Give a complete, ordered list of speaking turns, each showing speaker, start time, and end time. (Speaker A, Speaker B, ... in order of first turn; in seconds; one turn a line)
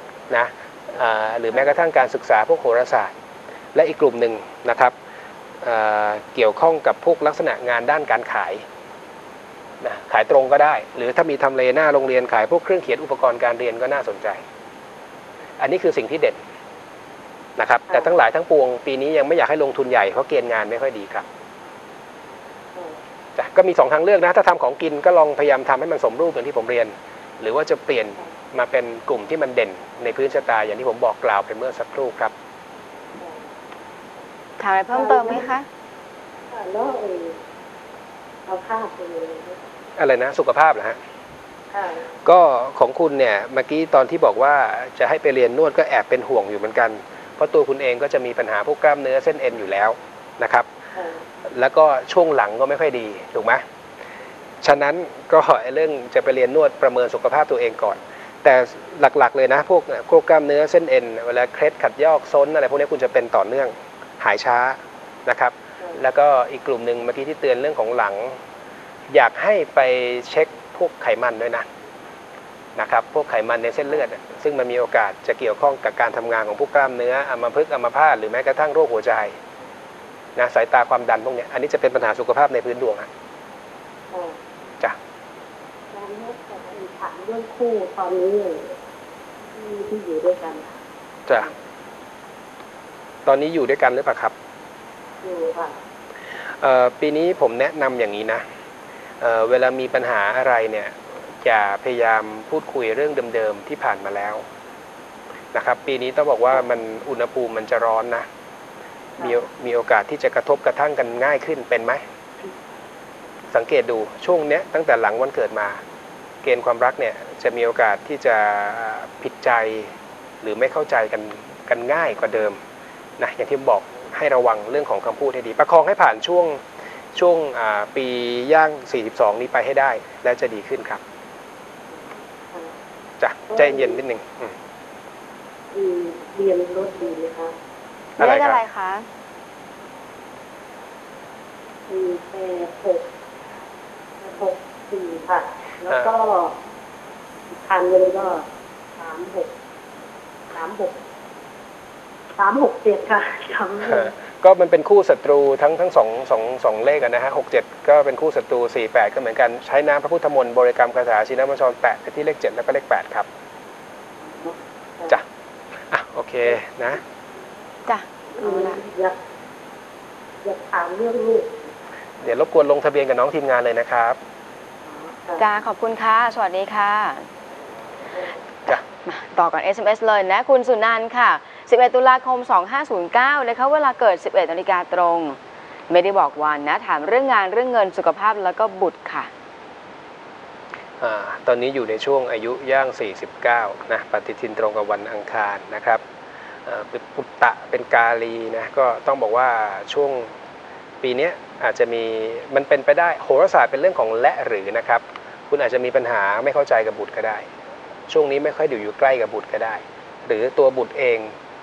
Speaker A: 0.3-3.1
Speaker A: 3.7-4.9
Speaker A: 5.6-8.6
Speaker A: 9.8-14.4
Speaker A: 15.6-16.4
Speaker A: 17.6-21.3
Speaker A: 23.4-32.3
Speaker B: 34.6-35.7
Speaker C: 34.9-35.5
Speaker C: 36.5-37.4
Speaker C: 38.5-39.6
Speaker A: 40.0-41.0
Speaker C: 41.7-42.1
Speaker A: 42.2-50.7
Speaker C: 51.0-51.2
Speaker A: 51.5-53.6
Speaker A: 54.6-68.4
Speaker A: 69.1-71.7
Speaker A: 72.8-79.3
Speaker A: 80.4-83.1
Speaker C: 84.1-84.4
Speaker C: 85.9-88.7
Speaker C: 89.5-90.8
Speaker A: 91.3-91.5
Speaker A: 93.2-94.3
Speaker C: 95.2-95.7
Speaker A: 96.6-98.4
Speaker A: 99.2-104.4
Speaker A: 105.5-108.2
Speaker A: 109.2-112.0
Speaker A: 113.5-115.8
Speaker A: 116.4-119.9
Speaker A: 120.4-122.6
Speaker A: 123.2-126.6
Speaker A: 127.1-131.0
Speaker A: 133.2-134.6
Speaker C: 133.5-134.0
Speaker C: 135.7-137.5
Speaker A: 138.2-138.6
Speaker B: 138.2-139.1
Speaker C: 141.9-143.1
Speaker C: 144.2-146.6
Speaker C: 147.6-148.4
Speaker C: 149.0-149.5
Speaker C: 150.5-151.0
Speaker C: 152.4-154.1
Speaker A: 153.8-163.3
Speaker C: 164.3-165.2
Speaker A: 165.9-167.0
Speaker B: 167.9-168.8
Speaker C: 168.4-169.2
Speaker C: 170.4-171.7
Speaker A: 172.2-174.2
Speaker C: 174.9-175.4
Speaker B: 175.4-177.3
Speaker B: 179.0-185.4
Speaker B: 185.9-189.3
Speaker A: 191.0-196.0
Speaker A: 196.7-200.3
Speaker A: 201.0-207.5
Speaker A: 208.1-211.3